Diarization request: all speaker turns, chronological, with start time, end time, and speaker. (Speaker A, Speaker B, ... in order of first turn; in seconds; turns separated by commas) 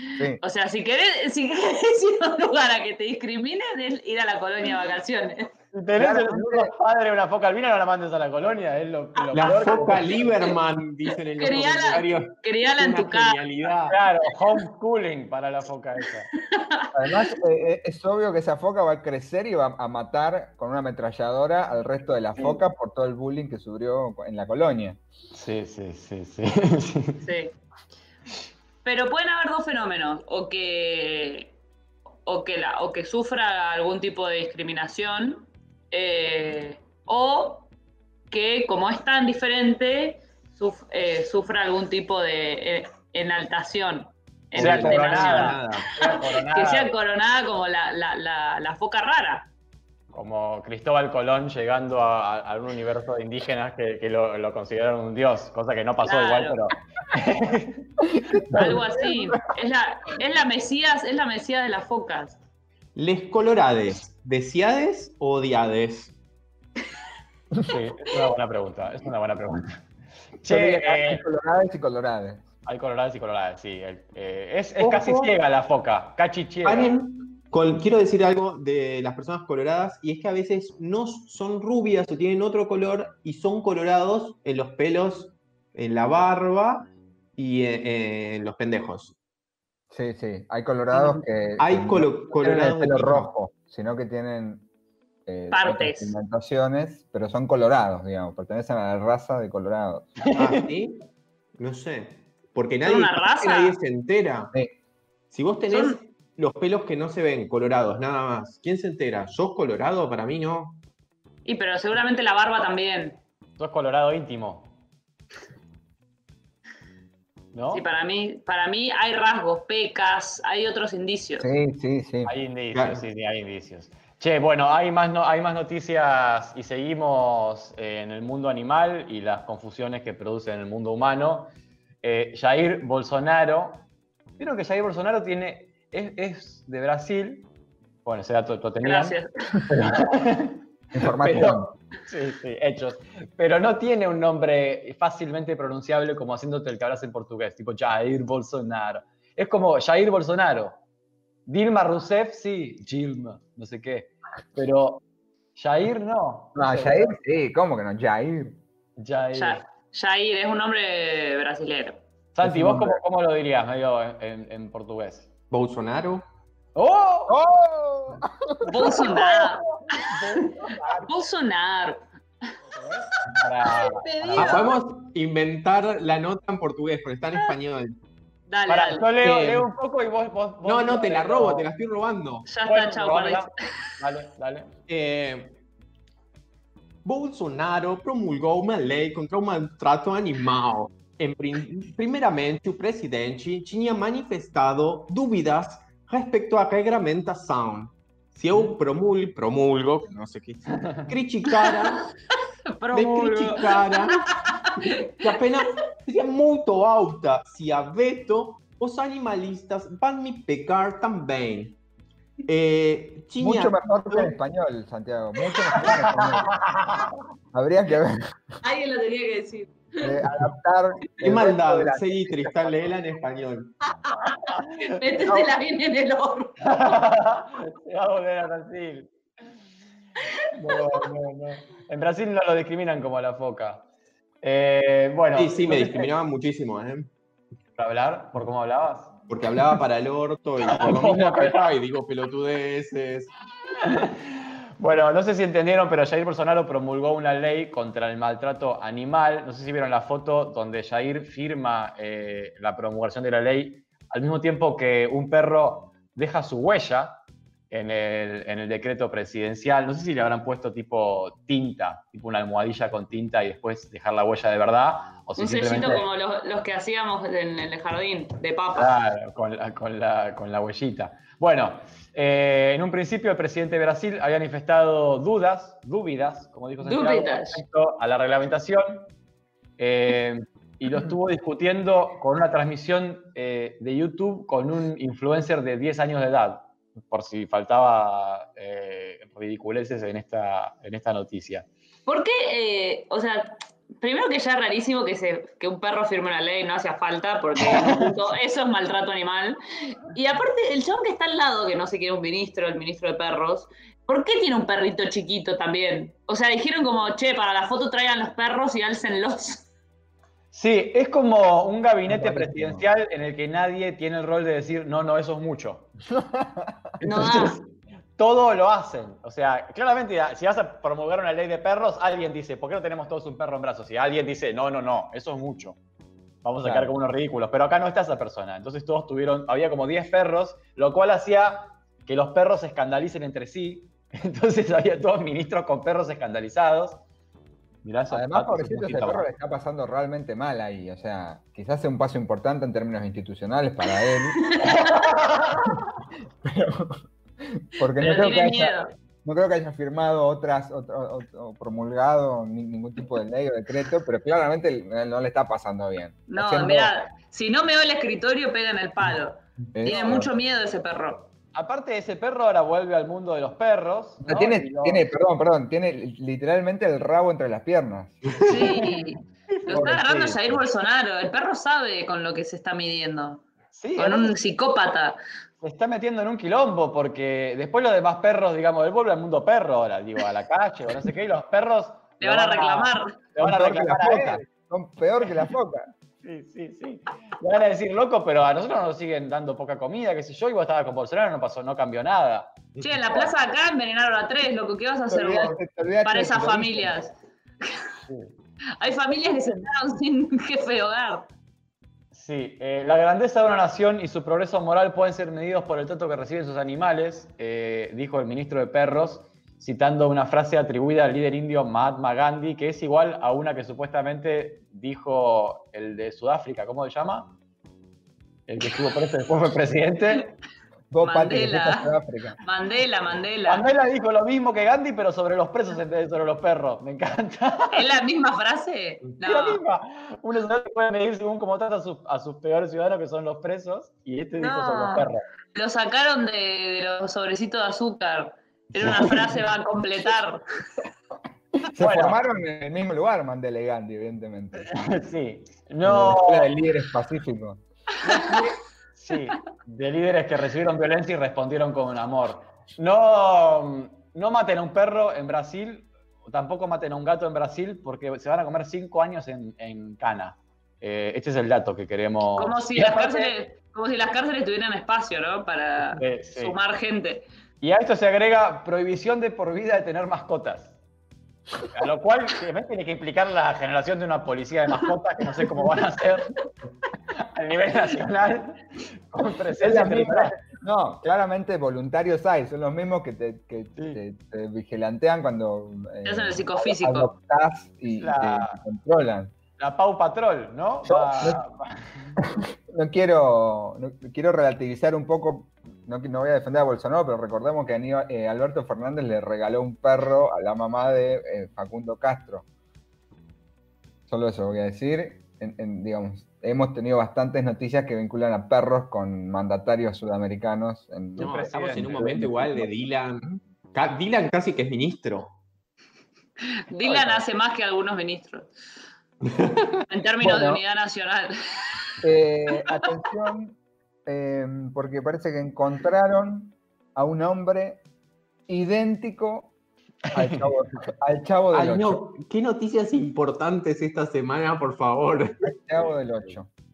Speaker A: 0.4-5.5, Speaker B: 5.7-10.3, Speaker C: 6.0-6.7, Speaker D: 9.3-14.0, Speaker A: 9.4-10.1, Speaker A: 11.4-13.4, Speaker B: 13.9-16.3, Speaker A: 16.4-16.9, Speaker C: 16.9-25.0, Speaker B: 25.3-27.2, Speaker A: 27.2-27.5, Speaker A: 28.8-31.5, Speaker A: 32.2-37.7, Speaker A: 38.3-49.5, Speaker D: 44.5-45.9, Speaker B: 44.5-46.9, Speaker B: 50.1-57.9, Speaker A: 56.0-56.6, Speaker C: 58.1-58.8, Speaker A: 58.5-62.4, Speaker D: 63.0-66.2, Speaker B: 67.7-69.8, Speaker B: 70.4-71.2, Speaker C: 70.5-72.4, Speaker B: 72.6-76.9, Speaker D: 74.8-75.3, Speaker D: 76.6-89.1, Speaker C: 89.9-94.7, Speaker D: 91.6-93.3, Speaker C: 95.2-100.2, Speaker A: 95.5-96.1, Speaker D: 100.3-101.0, Speaker D: 101.6-104.5, Speaker A: 102.8-103.8, Speaker D: 105.3-110.8, Speaker A: 105.7-106.0, Speaker A: 111.4-113.2, Speaker B: 113.6-114.7, Speaker B: 117.5-117.8, Speaker A: 117.7-121.5, Speaker C: 121.4-122.3, Speaker B: 122.2-133.8, Speaker D: 122.7-123.0, Speaker B: 134.4-137.5, Speaker B: 138.0-139.2, Speaker A: 138.8-139.6, Speaker B: 139.7-150.8, Speaker C: 140.9-141.7, Speaker B: 151.5-155.0, Speaker B: 155.6-157.1, Speaker C: 156.5-158.6, Speaker B: 159.0-159.6, Speaker A: 159.3-162.0, Speaker B: 162.3-165.3, Speaker C: 162.4-163.0, Speaker D: 165.5-166.2, Speaker B: 166.7-167.4, Speaker C: 167.3-169.2, Speaker A: 168.6-170.0, Speaker B: 168.8-171.0, Speaker C: 170.8-171.0, Speaker A: 171.1-172.0, Speaker B: 172.7-174.6, Speaker A: 173.8-174.8, Speaker D: 174.3-178.0, Speaker A: 178.5-179.1, Speaker B: 178.7-181.7, Speaker D: 179.2-179.7, Speaker D: 180.6-182.5, Speaker A: 182.4-183.5, Speaker B: 182.7-184.7, Speaker D: 184.9-185.5, Speaker D: 187.0-202.1, Speaker B: 200.8-201.1, Speaker A: 201.5-201.9, Speaker A: 202.8-205.0, Speaker D: 202.9-204.2, Speaker D: 205.0-211.8, Speaker D: 212.4-214.3, Speaker C: 213.4-216.6, Speaker B: 216.6-217.1, Speaker C: 217.5-218.6, Speaker A: 218.6-220.2, Speaker C: 220.0-222.8, Speaker D: 221.2-223.7, Speaker A: 224.1-226.6, Speaker B: 224.2-225.5, Speaker B: 226.6-229.1, Speaker B: 230.5-233.8, Speaker B: 234.4-236.1, Speaker D: 235.3-237.1, Speaker B: 237.8-239.2, Speaker D: 239.3-243.3, Speaker B: 240.7-241.6, Speaker B: 243.8-266.0, Speaker A: 265.4-268.9, Speaker B: 268.7-279.1, Speaker A: 276.8-277.6, Speaker B: 279.8-291.7, Speaker A: 292.1-309.6, Speaker B: 297.6-298.2, Speaker B: 310.5-315.9, Speaker C: 312.1-312.9, Speaker C: 316.1-317.4, Speaker B: 317.0-317.6, Speaker A: 317.0-317.6, Speaker B: 318.2-325.8, Speaker B: 326.4-337.0, Speaker C: 326.6-326.9, Speaker B: 337.8-339.3, Speaker C: 338.1-344.6, Speaker A: 344.4-345.0, Speaker B: 344.6-345.7, Speaker C: 346.4-356.9, Speaker A: 348.0-348.9, Speaker A: 356.3-361.3, Speaker C: 359.7-360.3, Speaker B: 361.5-365.0, Speaker C: 364.2-368.9, Speaker D: 368.3-369.0, Speaker A: 368.4-373.4, Speaker C: 369.7-370.4, Speaker B: 373.7-374.4, Speaker A: 374.0-375.2, Speaker B: 375.6-384.4, Speaker A: 382.2-383.1, Speaker C: 383.4-385.9, Speaker B: 386.2-392.6, Speaker A: 392.8-397.8, Speaker C: 395.1-397.0, Speaker B: 398.1-398.3, Speaker A: 398.8-401.3, Speaker B: 402.1-417.4, Speaker B: 418.5-420.3, Speaker C: 420.9-422.4, Speaker A: 421.0-421.9, Speaker A: 422.4-423.6, Speaker B: 423.4-427.9, Speaker A: 427.7-429.6, Speaker B: 429.2-435.2, Speaker A: 434.4-440.4, Speaker C: 441.7-444.7, Speaker B: 441.8-442.2, Speaker B: 444.6-446.6, Speaker C: 445.8-447.6, Speaker B: 448.0-463.3, Speaker A: 462.4-467.3, Speaker B: 465.9-466.6, Speaker B: 467.6-470.7, Speaker B: 471.7-476.3, Speaker B: 477.2-480.4, Speaker C: 479.6-489.3, Speaker B: 483.8-484.0, Speaker A: 486.0-487.1, Speaker B: 488.0-488.6, Speaker B: 489.6-492.2, Speaker C: 490.9-491.4, Speaker C: 492.2-502.4, Speaker C: 504.1-512.7, Speaker B: 511.2-512.2, Speaker D: 511.2-515.4, Speaker A: 516.7-518.5, Speaker A: 519.9-521.4, Speaker C: 520.2-520.6, Speaker C: 522.0-527.8, Speaker A: 522.5-522.8, Speaker C: 528.5-529.5, Speaker B: 530.1-530.5, Speaker C: 530.1-532.0, Speaker D: 531.5-535.5, Speaker C: 535.4-536.5